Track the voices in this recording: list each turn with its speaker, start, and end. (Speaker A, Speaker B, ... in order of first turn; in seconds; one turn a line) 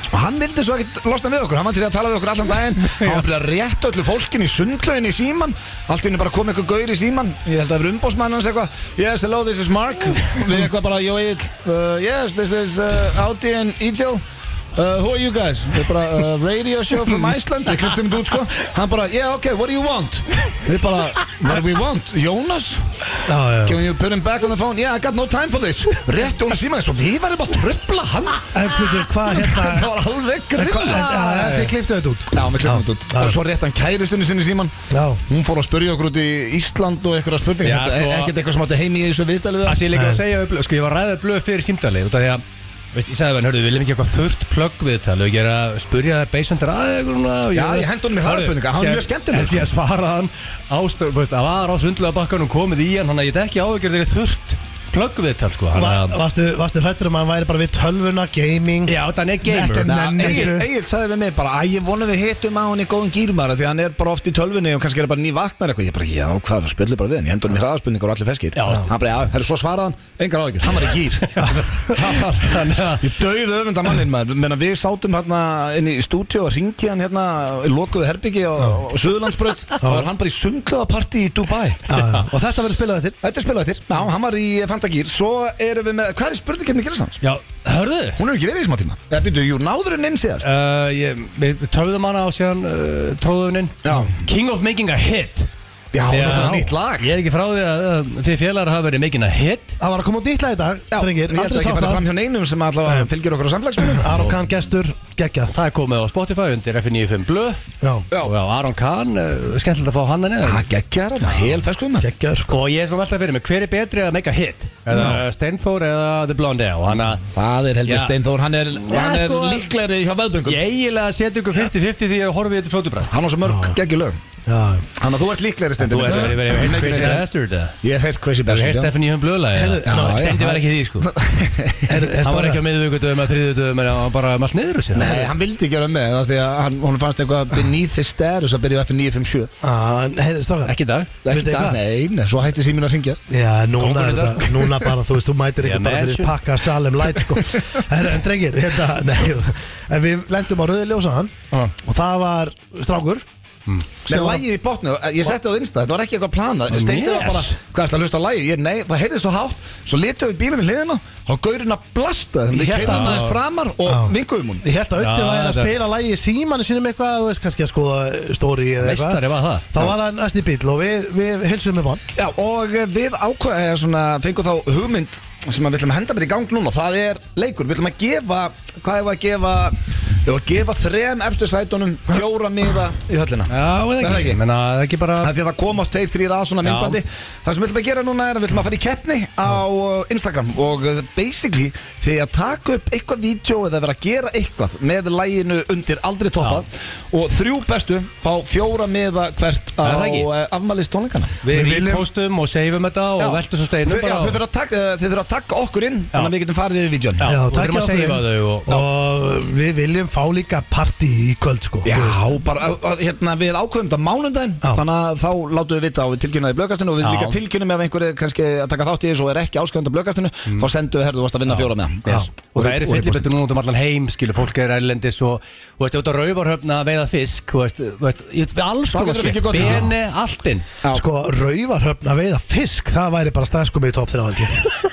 Speaker A: 0.1-14.2
Speaker A: 14.8-22.9
Speaker B: 23.3-23.8
Speaker A: 23.6-31.1
Speaker B: 28.5-29.9
Speaker B: 30.6-33.4
Speaker C: 30.8-31.7
Speaker A: 32.3-34.8
Speaker B: 34.9-35.2
Speaker A: 35.3-39.9
Speaker C: 37.6-38.3
Speaker C: 39.6-56.2
Speaker B: 39.9-40.2
Speaker A: 47.5-49.7
Speaker B: 55.7-60.7
Speaker C: 58.9-60.6
Speaker A: 59.9-81.9
Speaker C: 68.6-68.9
Speaker C: 71.3-73.1
Speaker B: 71.4-71.8
Speaker B: 79.8-80.1
Speaker B: 81.9-83.2
Speaker A: 83.2-87.2
Speaker C: 87.2-88.2
Speaker A: 88.2-90.5
Speaker C: 90.4-95.5
Speaker A: 93.8-94.2
Speaker A: 95.9-97.1
Speaker C: 96.1-99.8
Speaker B: 99.8-102.1
Speaker A: 100.9-104.1
Speaker B: 102.8-103.1
Speaker B: 103.8-105.5
Speaker C: 105.5-107.6
Speaker B: 107.8-108.1
Speaker C: 108.2-110.7
Speaker A: 110.4-112.1
Speaker B: 112.0-112.6
Speaker C: 112.5-117.2
Speaker B: 114.9-115.2
Speaker A: 117.3-120.6
Speaker C: 117.8-118.2
Speaker C: 118.8-119.7
Speaker C: 120.5-123.1
Speaker A: 123.1-124.2
Speaker B: 123.5-123.8
Speaker B: 124.5-124.9
Speaker A: 125.0-127.2
Speaker C: 125.8-127.8
Speaker B: 126.1-126.5
Speaker A: 127.8-128.9
Speaker C: 128.5-131.1
Speaker B: 129.5-130.6
Speaker A: 129.8-132.1
Speaker B: 131.9-132.7
Speaker C: 132.2-135.3
Speaker A: 134.9-139.5
Speaker B: 139.6-141.8
Speaker C: 140.7-141.1
Speaker A: 141.2-143.2
Speaker B: 143.3-153.2
Speaker C: 143.8-144.5
Speaker A: 144.6-144.9
Speaker C: 145.6-146.4
Speaker B: 154.1-154.4
Speaker A: 154.1-164.7
Speaker C: 156.7-157.6
Speaker B: 162.5-163.3
Speaker C: 162.8-163.4
Speaker B: 163.8-172.0
Speaker C: 165.0-165.7
Speaker C: 168.8-169.7
Speaker A: 172.2-184.4
Speaker C: 183.5-185.3
Speaker A: 185.2-201.4
Speaker C: 186.6-187.0
Speaker C: 199.8-200.3
Speaker C: 201.4-204.4
Speaker B: 201.5-202.1
Speaker A: 203.2-207.2
Speaker C: 207.2-208.7
Speaker B: 207.2-212.3
Speaker A: 211.8-223.3
Speaker C: 217.0-217.4
Speaker C: 222.5-230.7
Speaker A: 228.9-229.9
Speaker B: 229.6-229.9
Speaker B: 230.9-234.7